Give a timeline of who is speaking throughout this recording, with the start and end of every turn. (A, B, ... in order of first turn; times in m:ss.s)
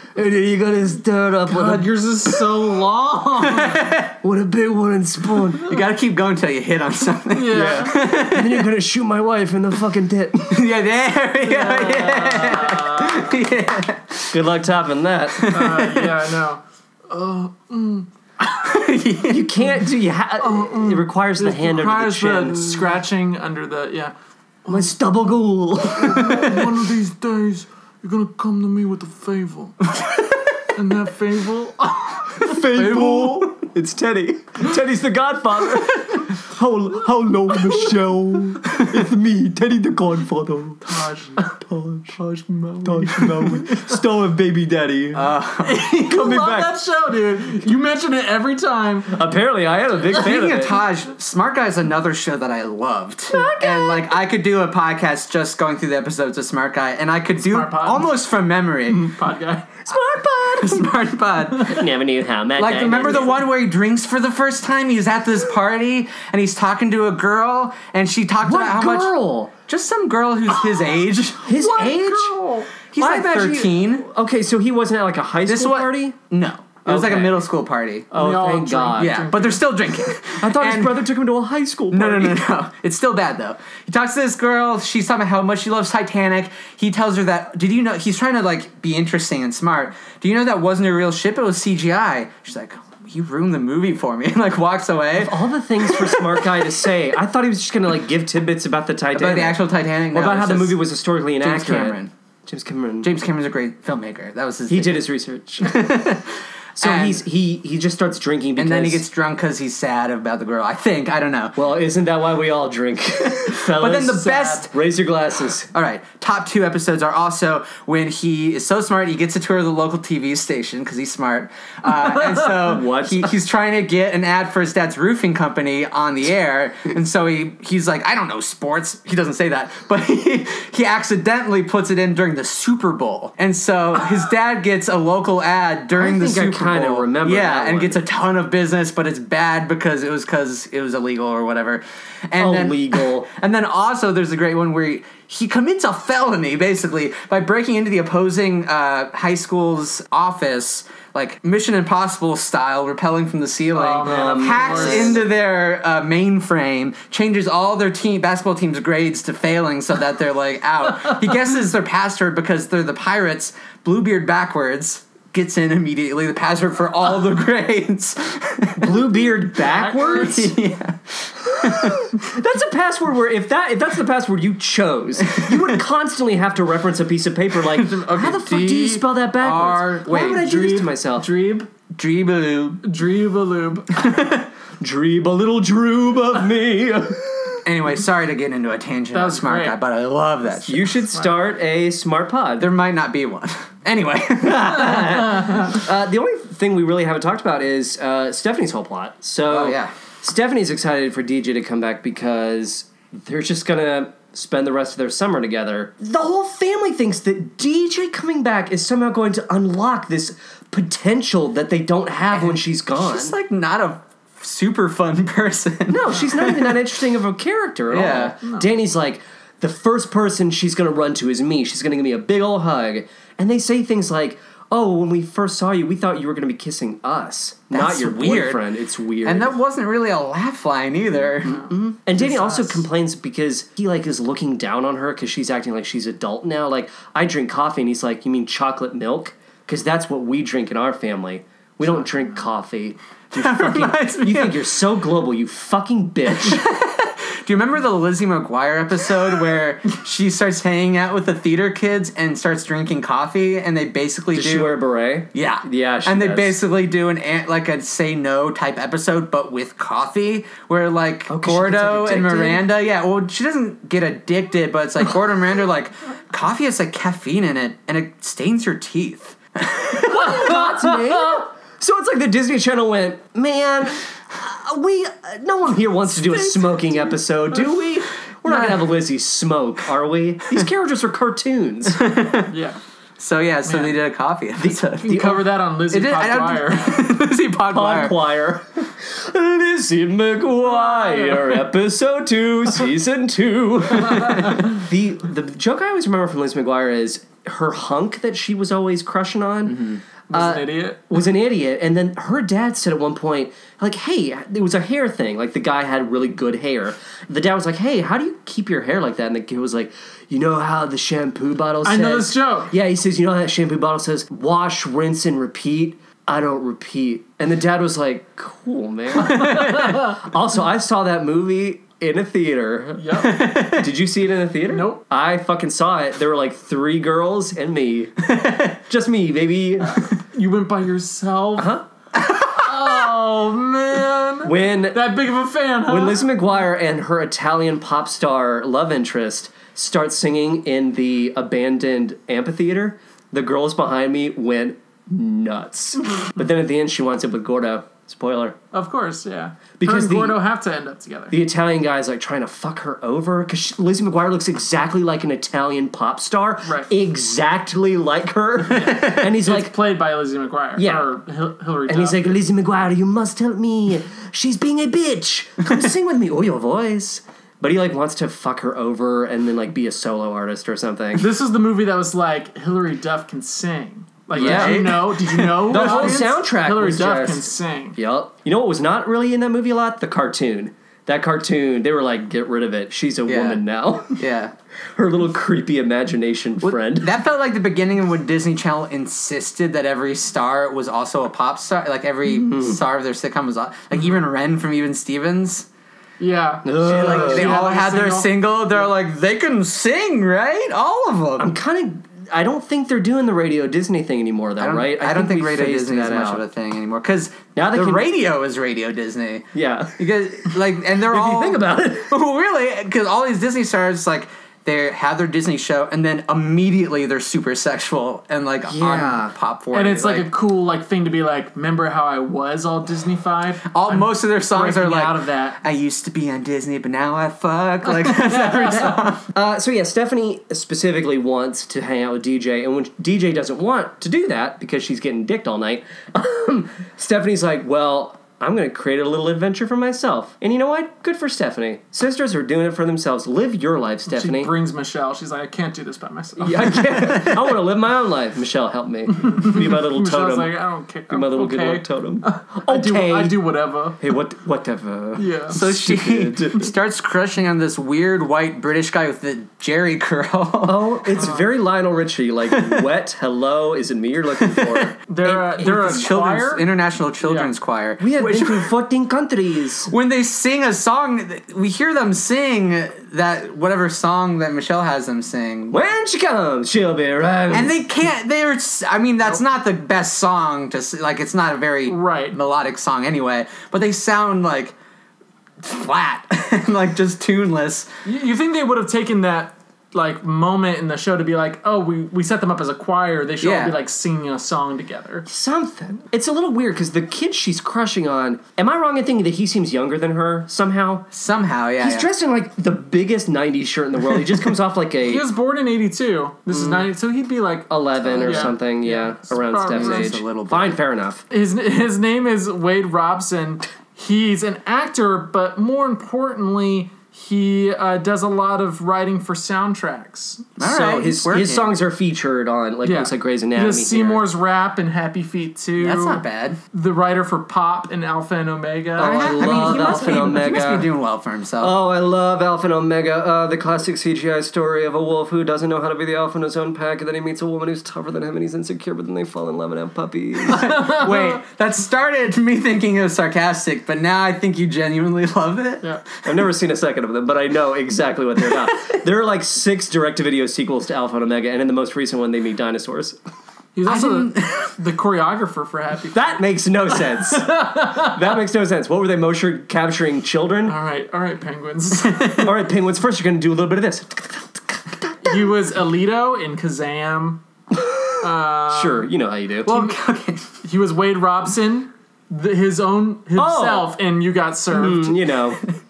0:00.1-0:01.9 A
0:01.5-0:03.9 B
0:03.4-0:04.1 C
0:04.2-0:05.7 A
0:05.6-0:08.7 C
0:07.3-0:08.0 B
0:07.5-0:10.7 A
0:10.5-0:14.3 C
0:11.4-0:13.3 B
0:14.3-0:15.5 A
0:15.4-0:16.2 C
0:15.5-0:18.6 B
0:18.6-0:19.6 C
0:19.3-0:22.9 A
0:20.4-0:24.1 B
0:24.7-0:26.5 A
0:26.0-0:29.9 B
0:26.3-0:26.7 C
0:30.7-0:32.6 B
0:32.4-0:41.1 A
0:32.8-0:33.4 C
0:40.9-0:41.5 B
0:41.6-0:42.2 A
0:42.2-0:43.9 B
0:42.8-0:45.3 A
0:45.1-0:45.8 C
0:45.6-0:49.2 B
0:46.0-0:46.7 A
0:49.1-0:50.8 A
0:50.1-0:59.1 C
0:53.3-0:54.1 A
0:57.4-0:58.1 B
0:58.9-0:59.7 B
0:59.8-1:00.8 A
1:00.5-1:01.8 C
1:01.6-1:03.4 A
1:02.6-1:09.1 C
1:08.4-1:09.5 A
1:09.7-1:11.5 C
1:11.4-1:12.4 A
1:11.5-1:12.7 B
1:12.9-1:14.0 C
1:13.0-1:16.2 A
1:15.4-1:18.1 C
1:16.8-1:17.4 A
1:18.1-1:19.2 A
1:18.1-1:19.7 B
1:19.0-1:21.1 C
1:20.4-1:22.4 A
1:21.9-1:36.5 C
1:35.2-1:43.1 A
1:39.1-1:40.9 C
1:41.4-1:42.1 C
1:43.0-1:45.0 C
1:44.7-1:45.9 A
1:45.6-1:47.2 C
1:46.8-1:49.0 A
1:48.6-1:51.6 C
1:51.6-1:55.7 A
1:53.4-1:54.7 C
1:55.7-2:49.2 C
2:02.4-2:03.3 A
2:15.9-2:18.0 A
2:22.4-2:23.3 A
2:33.7-2:35.2 B
2:34.0-2:35.2 A
2:48.8-2:50.5 A
2:49.6-2:50.4 B
2:50.0-2:52.2 C
2:51.6-3:01.3 A
2:55.4-2:55.6 C
2:57.8-2:59.1 B
2:59.4-3:00.4 C
3:00.1-3:01.7 B
3:01.9-3:02.9 C
3:02.8-3:04.1 B
3:04.0-3:04.4 C
3:04.8-3:07.6 A
3:07.6-3:11.1 C
3:09.1-3:09.8 B
3:10.7-3:12.7 A
3:12.6-3:15.6 C
3:14.4-3:33.4 A
3:19.5-3:19.9 C
3:32.3-3:36.8 C
3:35.9-3:49.6 A
3:37.9-3:38.4 C
3:47.7-3:48.7 C
3:49.2-3:51.7 C
3:51.4-3:52.8 B
3:51.4-4:06.6 A
4:03.3-4:04.6 C
4:06.3-4:14.8 C
4:14.3-4:16.6 A
4:15.3-4:30.4 C
4:21.3-4:22.7 A
4:30.0-4:42.0 A
4:30.3-4:31.4 B
4:38.4-4:38.8 C
4:41.9-4:42.5 C
4:42.5-4:42.8 B
4:43.2-4:48.2 C
4:43.6-4:44.0 B
4:44.6-4:45.1 A
4:45.0-4:47.1 B
4:47.7-5:23.2 A
4:50.7-4:51.6 B
4:54.1-4:54.6 C
4:59.7-5:00.0 C
5:00.3-5:01.1 B
5:11.8-5:12.7 B
5:19.3-5:19.8 C
5:23.0-5:23.5 B
5:23.2-5:23.9 C
5:23.7-5:30.0 A
5:24.7-5:25.0 B
5:28.2-5:28.7 C
5:29.9-5:31.8 B
5:31.6-5:31.8 A
5:32.2-5:32.7 C
5:32.6-5:36.3 B
5:34.4-5:35.1 A
5:35.9-5:48.6 A
5:48.7-5:51.3 B
5:49.8-5:50.4 A
5:51.3-5:59.8 A
5:56.6-5:56.9 B
5:58.8-5:59.2 C
5:59.0-6:02.4 B
6:00.8-6:01.1 A
6:01.9-6:11.2 A
6:11.2-6:18.0 B
6:14.3-6:15.0 A
6:14.3-6:16.2 C
6:15.6-6:24.2 A
6:23.3-6:24.5 C
6:25.0-6:27.1 A
6:26.6-6:35.7 C
6:32.2-6:32.8 A
6:36.2-6:38.7 B
6:36.6-6:37.6 A
6:36.8-6:41.5 C
6:41.4-6:46.4 A
6:44.6-7:00.3 C
6:47.5-6:48.1 A
6:49.5-6:52.1 A
6:58.6-6:59.3 A
6:59.7-7:05.6 B
7:03.7-7:09.2 C
7:08.0-7:09.0 B
7:09.3-7:24.5 A
7:24.1-7:26.8 B
7:26.4-7:30.5 A
7:26.8-7:27.5 C
7:29.1-7:34.0 B
7:31.1-7:33.4 A
7:34.0-7:36.6 A
7:35.2-7:35.6 B
7:35.5-7:41.3 C
7:40.6-7:45.0 A
7:42.5-7:42.8 C
7:44.4-7:48.7 C
7:45.1-7:46.6 B
7:47.2-7:47.5 B
7:48.0-7:49.9 A
7:49.8-7:55.8 C
7:55.7-7:57.8 A
7:57.5-8:04.7 C
8:01.9-8:02.4 B
8:05.6-8:07.9 C
8:08.0-8:15.2 B
8:13.4-8:13.8 C
8:15.3-8:21.1 A
8:21.1-8:22.1 C
8:21.8-8:25.2 A
8:25.0-8:30.2 B
8:26.5-8:26.9 A
8:27.7-8:31.2 A
8:28.1-8:28.5 C
8:29.7-8:30.8 C
8:31.3-8:40.5 B
8:40.6-8:41.8 C
8:40.6-8:44.2 A
8:42.8-8:50.4 B
8:45.8-8:46.6 C
8:49.0-8:51.7 C
8:49.0-8:50.9 A
8:51.6-9:00.8 A
9:00.5-9:06.0 C
9:00.6-9:01.3 B
9:06.2-9:13.2 A
9:13.7-9:16.4 B
9:13.8-9:14.7 C
9:16.1-9:20.7 A
9:17.1-9:18.1 B
9:20.6-9:22.4 B
9:22.0-9:22.4 C
9:22.3-9:25.5 A
9:25.2-9:27.4 B
9:27.7-9:29.8 A
9:28.2-9:29.1 B
9:29.6-9:30.5 C
9:30.6-9:35.2 B
9:33.4-9:33.9 A
9:34.7-9:35.6 A